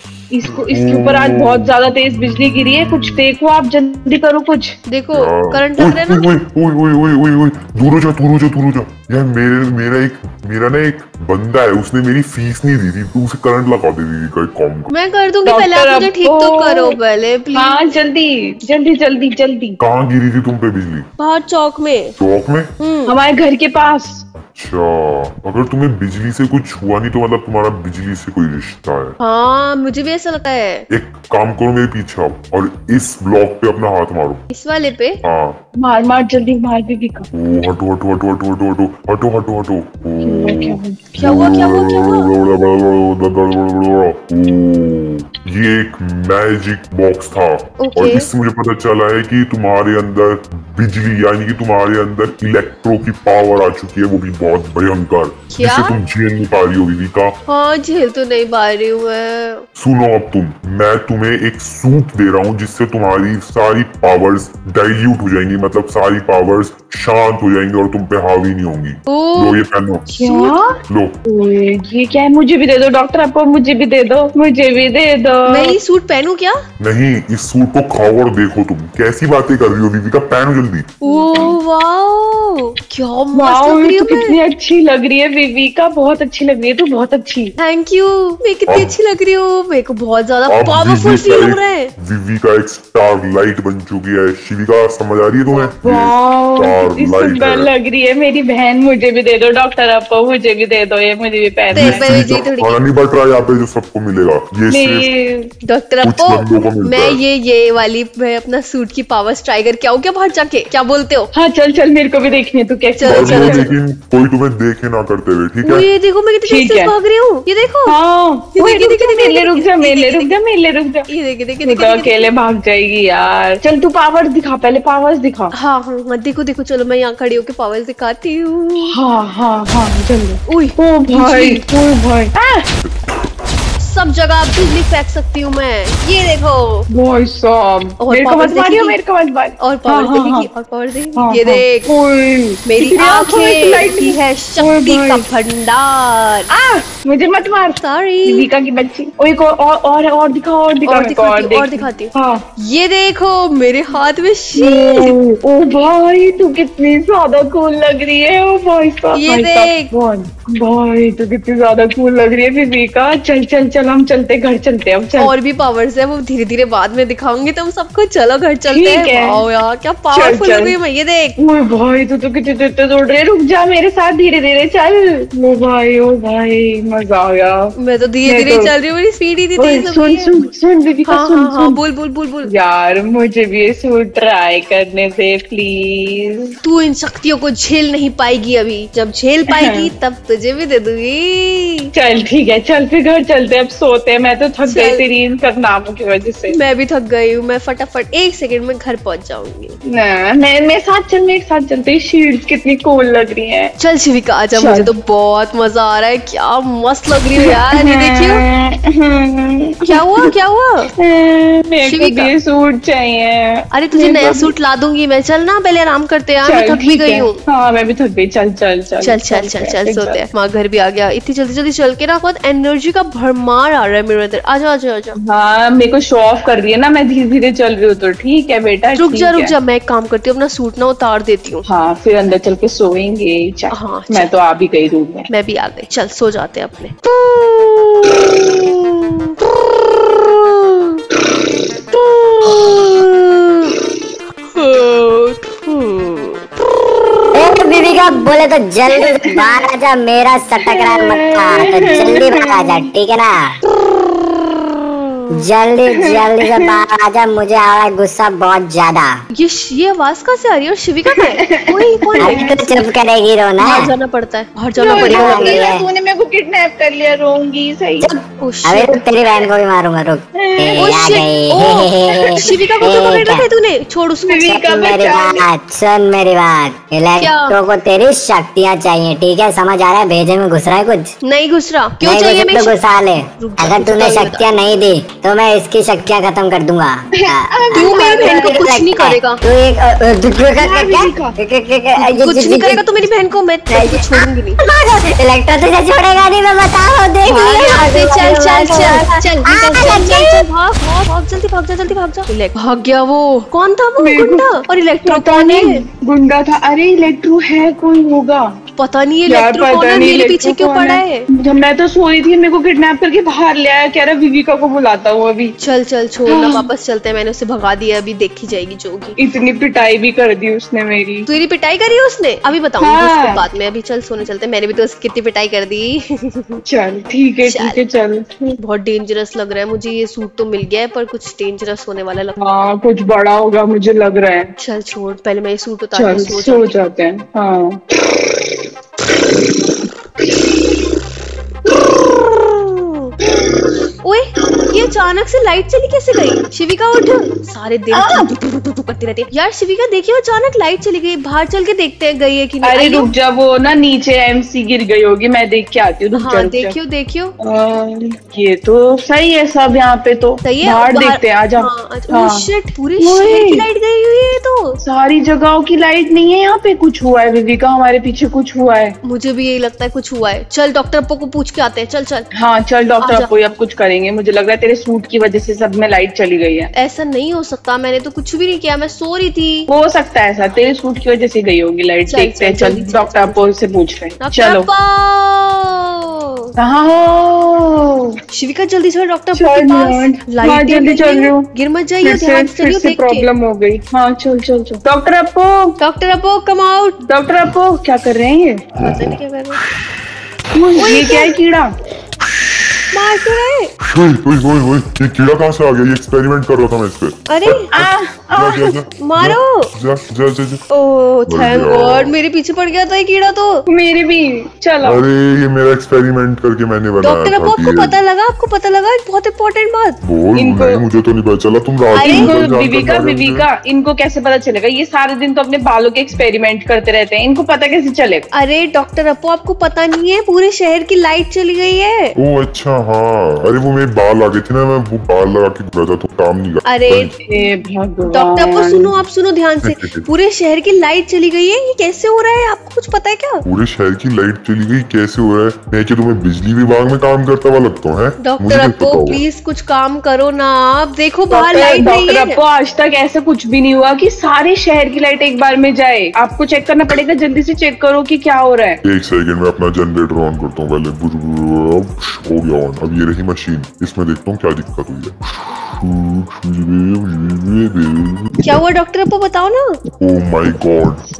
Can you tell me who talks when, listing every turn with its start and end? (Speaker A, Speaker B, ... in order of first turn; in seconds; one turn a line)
Speaker A: 0.3-4.7
Speaker B: 0.4-3.2
Speaker C: 4.9-6.3
Speaker B: 5.1-14.9
Speaker C: 14.9-17.9
Speaker A: 15.4-17.0
Speaker A: 17.5-19.8
Speaker B: 19.8-21.1
Speaker C: 21.2-22.1
Speaker B: 22.2-22.7
Speaker C: 22.8-23.1
Speaker A: 23.1-24.2
Speaker B: 24.4-29.2
Speaker C: 29.2-30.8
Speaker B: 30.9-34.4
Speaker C: 34.5-35.2
Speaker B: 35.2-35.6
Speaker A: 35.8-37.3
Speaker B: 37.3-57.4
Speaker A: 40.2-41.2
Speaker C: 41.2-42.3
Speaker C: 47.8-48.2
Speaker C: 55.5-55.9
Speaker C: 57.5-59.6
Speaker B: 59.8-70.1
Speaker C: 69.1-70.6
Speaker A: 70.2-70.7
Speaker B: 70.9-71.1
Speaker A: 71.2-75.7
Speaker C: 75.5-76.5
Speaker B: 76.8-80.9
Speaker C: 81.0-84.3
Speaker A: 81.0-81.6
Speaker A: 83.3-87.5
Speaker C: 87.6-91.9
Speaker B: 88.7-88.9
Speaker B: 90.5-97.7
Speaker A: 95.8-102.4
Speaker C: 101.7-102.7
Speaker B: 101.7-105.1
Speaker A: 104.7-105.5
Speaker C: 105.7-111.3
Speaker B: 106.0-107.2
Speaker A: 111.3-113.7
Speaker C: 113.0-113.7
Speaker B: 113.0-115.9
Speaker C: 115.6-117.9
Speaker A: 116.4-116.9
Speaker A: 117.9-121.1
Speaker C: 118.5-120.3
Speaker C: 121.1-122.3
Speaker A: 121.6-125.5
Speaker C: 125.5-128.9
Speaker A: 128.9-132.7
Speaker C: 130.5-131.6
Speaker C: 133.8-136.8
Speaker A: 136.9-140.5
Speaker C: 138.0-138.9
Speaker C: 139.6-141.9
Speaker A: 141.2-145.2
Speaker C: 142.7-146.5
Speaker A: 146.5-152.4
Speaker C: 147.8-148.4
Speaker C: 150.8-155.1
Speaker A: 154.6-165.3
Speaker C: 159.1-159.9
Speaker C: 165.2-171.3
Speaker A: 168.7-169.4
Speaker A: 170.1-170.8
Speaker A: 171.4-177.7
Speaker C: 177.8-180.3
Speaker A: 178.2-178.7
Speaker A: 179.6-181.8
Speaker C: 181.1-182.5
Speaker A: 182.5-186.4
Speaker C: 186.6-191.9
Speaker A: 189.5-189.9
Speaker A: 191.9-196.6
Speaker C: 194.7-195.0
Speaker C: 196.5-199.8
Speaker A: 199.9-203.7
Speaker C: 203.8-208.4
Speaker A: 204.5-204.9
Speaker A: 207.4-210.3
Speaker C: 209.9-210.9
Speaker A: 211.0-214.5
Speaker C: 211.8-212.3
Speaker C: 213.7-217.4
Speaker A: 216.4-220.2
Speaker C: 219.0-225.2
Speaker A: 225.3-229.5
Speaker C: 228.9-231.6
Speaker A: 231.7-235.3
Speaker C: 233.7-234.3
Speaker C: 235.3-241.0
Speaker C: 241.9-243.8
Speaker C: 244.5-246.4
Speaker D: 247.3-253.5
Speaker A: 248.9-249.6
Speaker A: 250.7-252.8
Speaker C: 253.9-255.3
Speaker D: 255.3-259.1
Speaker A: 255.9-256.8
Speaker C: 259.4-262.8
Speaker A: 261.1-262.6
Speaker D: 262.2-263.9
Speaker C: 263.6-265.6
Speaker A: 264.8-268.1
Speaker D: 264.9-265.8
Speaker D: 268.0-273.4
Speaker C: 268.4-269.0
Speaker A: 270.4-270.8
Speaker C: 270.8-274.5
Speaker A: 272.1-272.5
Speaker A: 274.3-275.5
Speaker D: 274.4-281.1
Speaker C: 277.2-277.6
Speaker C: 281.2-282.8
Speaker D: 282.0-292.8
Speaker C: 283.4-284.5
Speaker A: 287.2-288.7
Speaker C: 287.7-289.4
Speaker A: 290.5-291.4
Speaker C: 292.0-294.6
Speaker D: 293.7-300.4
Speaker A: 297.2-299.0
Speaker C: 297.4-305.8
Speaker A: 304.0-304.5
Speaker A: 305.0-308.5
Speaker C: 308.8-311.3
Speaker A: 309.2-315.6
Speaker C: 315.6-319.2
Speaker A: 316.3-316.6
Speaker A: 319.2-321.3
Speaker C: 321.2-326.6
Speaker A: 322.8-323.4
Speaker A: 326.6-328.6
Speaker C: 327.4-327.8
Speaker C: 328.6-332.4
Speaker A: 332.4-334.5
Speaker C: 334.6-336.7
Speaker A: 335.9-338.6
Speaker A: 339.2-339.9
Speaker A: 340.4-340.8
Speaker A: 341.7-342.2
Speaker C: 342.2-343.1
Speaker A: 343.4-343.7
Speaker C: 344.0-353.1
Speaker A: 347.9-348.3
Speaker A: 352.6-356.7
Speaker C: 356.1-357.3
Speaker A: 357.4-362.4
Speaker C: 360.4-364.8
Speaker A: 363.0-363.6
Speaker A: 364.8-368.9
Speaker C: 369.0-372.3
Speaker A: 372.4-376.7
Speaker C: 373.0-373.3
Speaker C: 376.8-379.7
Speaker A: 379.7-384.7
Speaker C: 382.1-383.5
Speaker C: 384.2-386.5
Speaker A: 386.6-388.1
Speaker C: 388.3-393.3
Speaker A: 389.3-391.4
Speaker A: 392.0-395.8
Speaker C: 395.8-397.0
Speaker A: 397.1-398.6
Speaker B: 398.8-399.2
Speaker C: 398.8-399.6
Speaker A: 400.5-401.7
Speaker C: 400.8-401.4
Speaker C: 402.9-403.7
Speaker B: 403.8-410.6
Speaker C: 407.3-407.7
Speaker A: 407.7-408.8
Speaker C: 409.0-409.7
Speaker C: 410.7-413.6
Speaker B: 411.3-412.1
Speaker A: 413.7-415.0
Speaker B: 414.8-418.0
Speaker C: 417.0-420.0
Speaker B: 420.0-423.4
Speaker A: 420.4-420.8
Speaker A: 421.9-428.3
Speaker C: 422.0-422.4
Speaker C: 428.3-432.1
Speaker B: 432.2-437.1
Speaker C: 436.7-437.1
Speaker A: 437.2-438.9
Speaker C: 438.1-443.4
Speaker B: 439.6-440.1
Speaker B: 443.4-449.2
Speaker C: 448.2-452.4
Speaker A: 451.3-458.8
Speaker B: 458.8-468.6
Speaker C: 468.4-469.8
Speaker B: 470.0-471.0